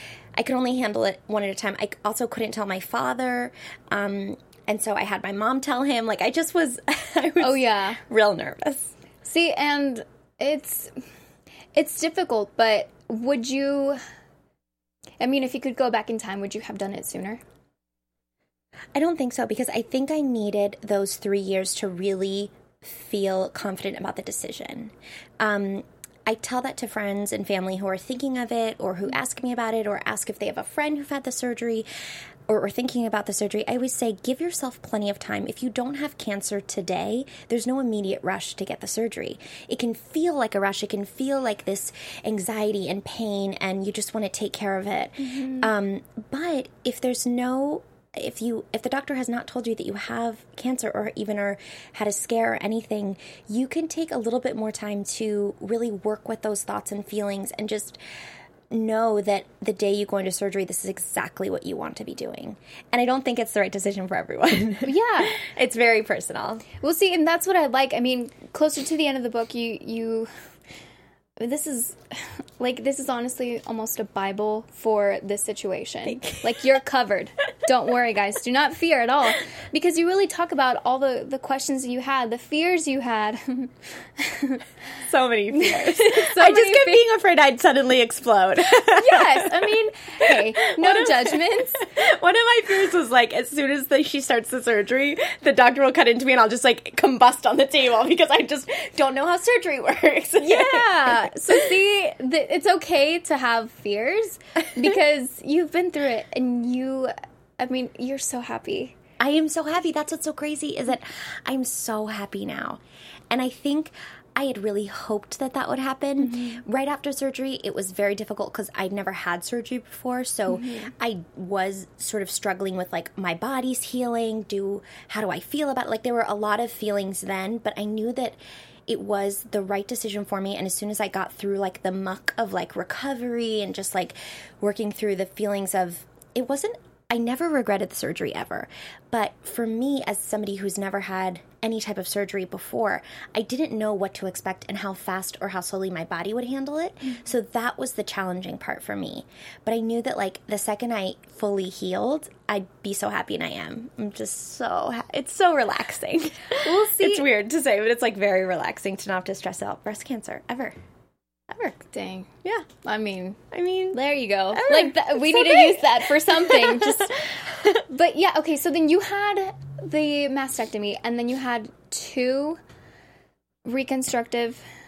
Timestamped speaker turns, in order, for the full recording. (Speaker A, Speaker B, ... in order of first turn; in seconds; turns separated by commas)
Speaker A: 0.3-8.9, Speaker B: 7.4-8.0, Speaker B: 9.2-10.9, Speaker B: 11.7-14.0, Speaker B: 15.2-17.4, Speaker A: 18.9-31.9, Speaker A: 32.5-58.0, Speaker B: 45.2-45.7, Speaker A: 58.7-66.7, Speaker B: 64.8-65.4, Speaker B: 66.8-70.3, Speaker B: 71.4-84.6, Speaker A: 76.0-76.8, Speaker A: 85.0-101.7, Speaker B: 85.5-87.0, Speaker B: 88.8-91.8, Speaker B: 100.4-109.0, Speaker A: 109.2-160.7, Speaker B: 116.2-116.6, Speaker B: 120.5-120.9, Speaker B: 156.6-157.3, Speaker A: 161.5-161.8, Speaker B: 161.9-163.4, Speaker A: 163.5-164.0, Speaker B: 163.9-167.2, Speaker A: 164.5-167.8, Speaker B: 167.8-172.6, Speaker B: 173.6-174.6